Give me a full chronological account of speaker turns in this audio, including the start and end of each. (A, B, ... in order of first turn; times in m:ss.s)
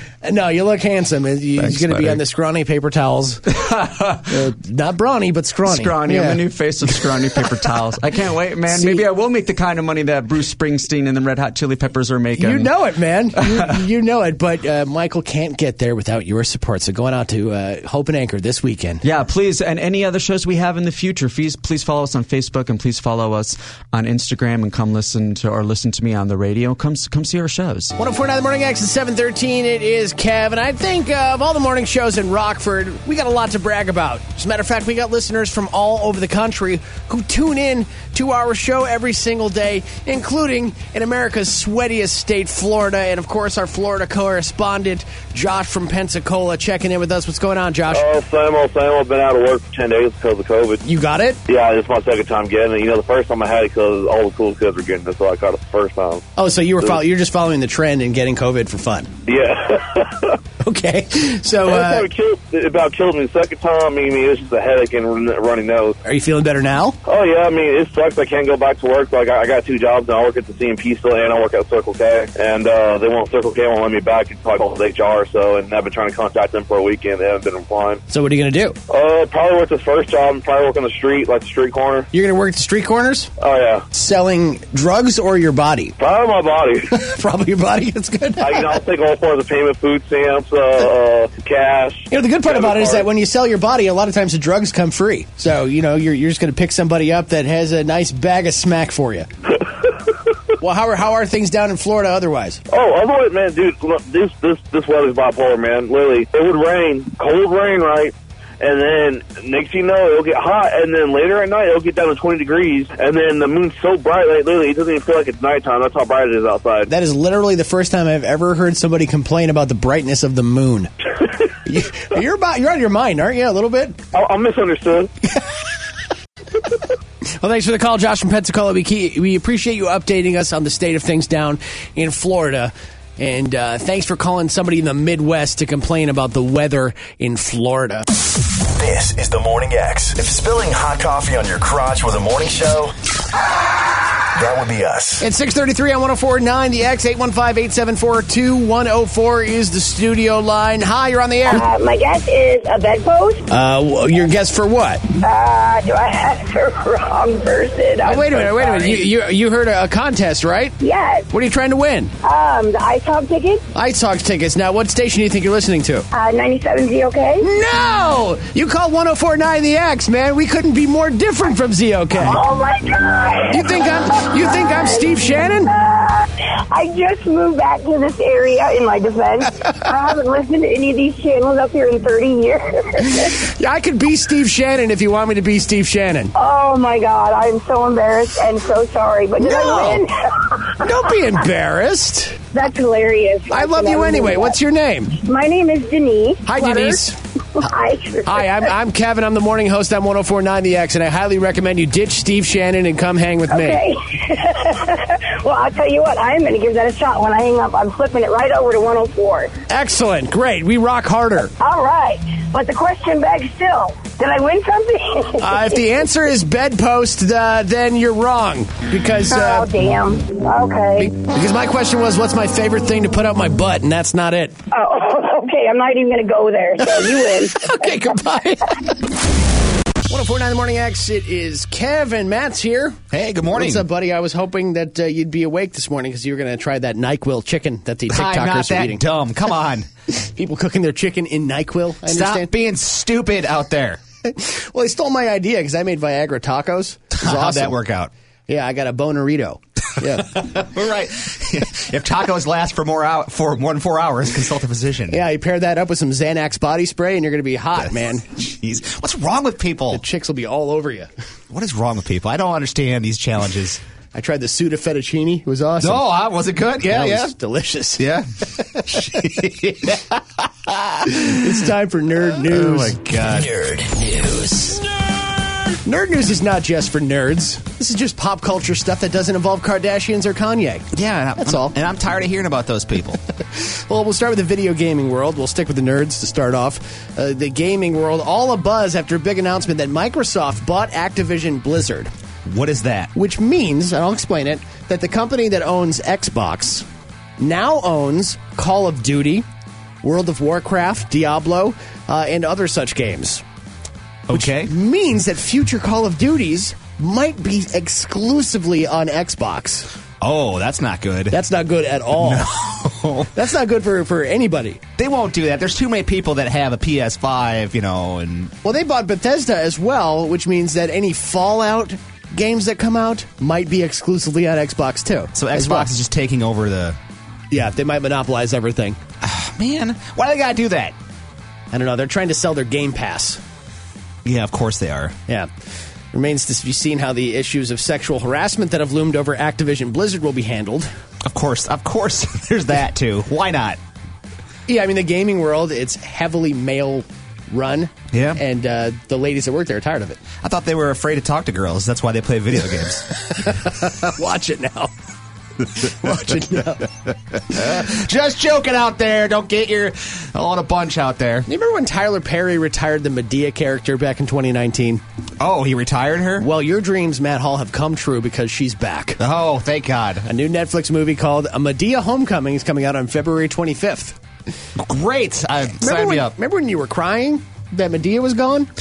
0:00.2-0:03.4 A
0:01.6-0:02.2 B
0:03.5-0:04.4 B
0:04.3-0:07.0 A
0:05.7-0:12.7 B
0:08.7-0:09.0 A
0:12.4-0:19.0 A
0:13.4-0:13.8 B
0:19.0-0:27.9 B
0:28.0-0:48.0 A
0:47.9-0:50.8 C
0:50.8-0:51.4 A
0:51.5-0:56.3 C
0:56.4-0:59.1 A
0:59.3-1:00.4 C
1:00.6-1:02.1 A
1:01.6-1:06.0 C
1:06.0-1:07.0 A
1:07.1-1:18.0 C
1:18.1-1:18.8 A
1:18.9-1:22.1 C
1:22.1-1:23.3 A
1:23.4-1:23.9 C
1:23.9-1:26.0 A
1:26.0-1:27.0 C
1:26.9-1:28.8 A
1:28.4-1:33.1 C
1:32.1-1:39.3 A
1:40.6-1:42.6 A
1:42.7-1:56.9 C
1:56.9-2:00.9 A
2:01.6-2:04.0 A
2:04.1-2:05.1 C
2:07.4-2:18.1 A
2:18.8-2:23.0 D
2:24.4-2:25.2 D
2:25.2-2:31.7 A
2:31.5-2:33.4 E
2:33.5-2:35.0 A
2:35.1-2:39.0 E
2:38.0-2:40.8 A
2:40.8-2:41.3 E
2:41.3-2:42.1 A
2:42.2-2:43.6 E
2:43.7-2:46.1 A
2:46.1-2:47.5 E
2:47.4-2:52.4 A
2:52.2-3:03.4 E
2:53.5-2:55.7 A
3:03.4-3:06.3 A
3:06.4-3:10.7 E
3:09.4-3:10.0 A
3:10.8-3:12.5 A
3:12.5-3:14.6 E
3:13.5-3:15.2 A
3:15.1-3:17.0 E
3:16.5-3:17.2 A
3:17.6-3:18.7 E
3:18.3-3:23.8 A
3:23.5-3:29.5 E
3:29.7-3:31.5 A
3:31.6-3:35.8 E
3:35.4-3:39.7 A
3:39.3-3:41.1 E
3:41.0-3:44.6 A
3:44.7-3:47.8 E
3:46.8-3:49.0 A
3:50.1-3:59.0 A
3:53.1-3:53.9 F
3:58.1-3:59.9 F
4:00.2-4:02.5 A
4:02.1-4:04.0 F
4:04.2-4:07.8 A
4:07.1-4:08.1 F
4:08.5-4:10.5 A
4:10.2-4:15.2 F
4:15.1-4:18.2 A
4:18.2-4:20.0 F
4:19.9-4:21.1 A
4:21.5-4:23.8 F
4:24.1-4:26.1 A
4:25.8-4:27.3 F
4:26.8-4:28.1 A
4:28.0-4:31.3 F
4:31.0-4:33.0 A
4:32.3-4:33.5 F
4:33.4-4:33.9 D
4:33.9-4:34.8 A
4:35.8-4:40.9 A
4:40.9-4:43.2 F
4:41.4-4:41.8 A
4:43.6-4:52.1 A
4:52.5-4:53.1 F
4:53.2-4:56.9 A
4:57.4-4:59.5 A
5:00.0-5:03.4 A
5:04.3-5:04.7 F
5:04.3-5:09.9 A
5:10.2-5:11.4 F
5:11.3-5:12.5 A
5:12.2-5:13.3 F
5:13.3-5:14.8 A
5:15.0-5:18.5 F
5:18.6-5:25.9 A
5:25.4-5:27.0 F
5:27.5-5:29.0 A
5:29.2-5:31.0 F
5:31.7-5:33.4 A
5:34.2-5:35.2 F
5:36.1-5:40.9 A
5:41.2-5:43.8 F
5:44.7-5:50.2 A
5:48.1-5:48.4 F
5:50.4-5:53.1 F
5:53.4-5:54.9 A
5:55.8-5:56.9 A
5:57.5-6:01.5 F
6:01.5-6:05.0 A
6:05.4-6:06.5 F
6:06.4-6:09.2 A
6:09.2-6:10.3 F
6:10.3-6:14.2 A
6:14.8-6:16.3 F
6:15.8-6:18.7 A